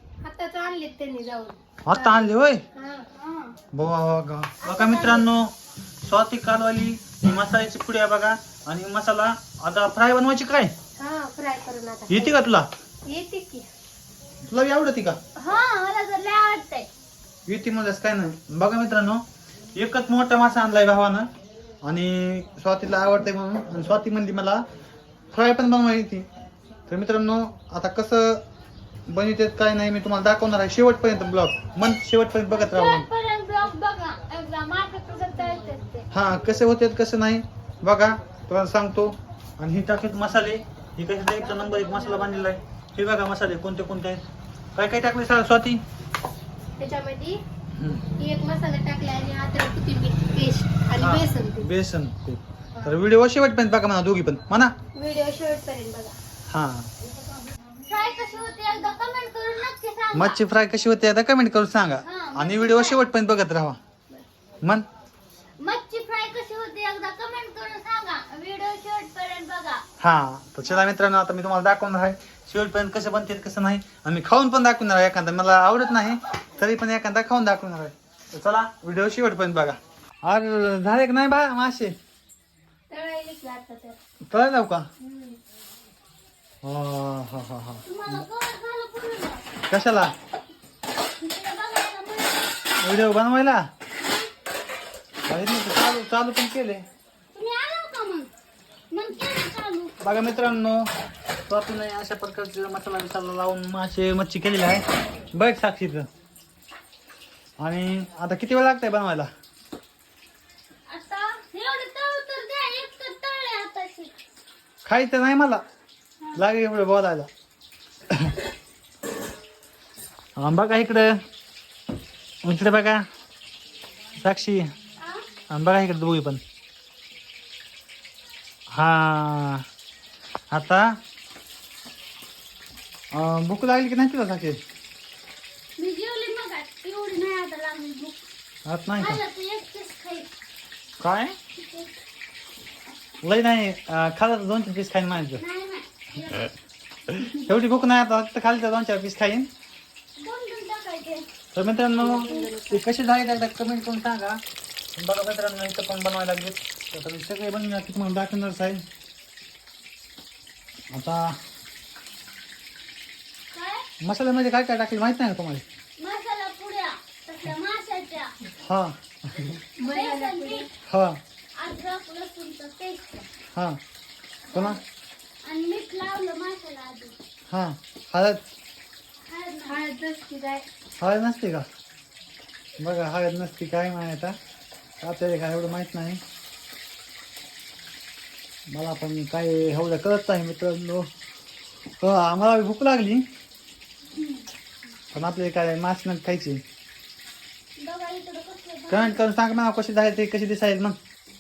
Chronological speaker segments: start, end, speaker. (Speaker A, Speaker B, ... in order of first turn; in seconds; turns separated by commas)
Speaker A: 0.2-3.1, Speaker B: 1.9-2.6, Speaker C: 3.2-3.6, Speaker B: 3.7-10.7, Speaker C: 4.6-5.3, Speaker A: 11.0-12.4, Speaker B: 12.1-12.7, Speaker A: 13.1-13.7, Speaker B: 14.4-15.2, Speaker C: 15.4-16.9, Speaker B: 17.5-19.2, Speaker B: 19.8-21.3, Speaker B: 21.8-24.6, Speaker B: 25.3-26.3, Speaker B: 26.9-28.4, Speaker B: 29.1-33.1, Speaker C: 32.5-36.1, Speaker B: 36.1-44.2, Speaker A: 41.7-42.0, Speaker B: 44.8-45.8, Speaker A: 46.8-47.4, Speaker B: 47.8-48.0, Speaker A: 48.2-51.7, Speaker B: 51.0-54.7, Speaker A: 55.0-56.2, Speaker B: 56.5-56.9, Speaker C: 57.9-60.4, Speaker B: 60.1-63.8, Speaker C: 62.0-63.0, Speaker B: 64.6-64.9, Speaker C: 65.6-69.8, Speaker B: 70.0-82.0, Speaker A: 82.9-84.0, Speaker B: 84.3-84.9, Speaker A: 85.0-85.4, Speaker B: 86.6-88.3, Speaker C: 87.9-89.4, Speaker B: 89.7-90.1, Speaker C: 91.2-92.5, Speaker B: 92.8-93.7, Speaker C: 94.0-94.3, Speaker B: 95.3-96.8, Speaker C: 97.3-98.3, Speaker C: 98.9-100.1, Speaker B: 100.0-100.9, Speaker B: 101.5-106.1, Speaker B: 107.6-109.3, Speaker C: 110.9-114.1, Speaker B: 114.8-115.6, Speaker B: 116.4-117.3, Speaker B: 120.4-121.1, Speaker B: 122.4-123.0, Speaker B: 124.2-124.7, Speaker C: 125.0-125.2, Speaker B: 125.5-126.4, Speaker B: 128.7-129.6, Speaker B: 130.5-131.0, Speaker B: 133.1-134.6, Speaker C: 135.8-138.2, Speaker B: 138.7-139.2, Speaker C: 139.0-140.3, Speaker B: 141.0-141.3, Speaker C: 141.6-142.0, Speaker B: 143.2-145.4, Speaker C: 145.4-146.5, Speaker B: 147.1-149.5, Speaker C: 150.2-151.3, Speaker B: 151.5-154.4, Speaker A: 151.9-152.8, Speaker B: 154.9-158.8, Speaker B: 160.9-161.4, Speaker C: 163.5-163.8, Speaker B: 164.0-165.6, Speaker C: 166.0-168.3, Speaker B: 168.6-169.5, Speaker A: 169.8-170.7, Speaker C: 169.8-170.7, Speaker B: 170.9-171.2, Speaker C: 171.6-173.3, Speaker B: 173.5-173.8, Speaker B: 174.5-174.8, Speaker C: 175.4-177.1, Speaker B: 177.5-178.4, Speaker C: 179.2-179.8, Speaker A: 179.7-180.7, Speaker B: 181.0-181.7, Speaker B: 182.8-184.4, Speaker B: 185.0-186.2, Speaker B: 188.7-191.1, Speaker B: 192.0-193.3, Speaker B: 195.1-196.6, Speaker C: 197.8-199.2, Speaker B: 198.9-201.0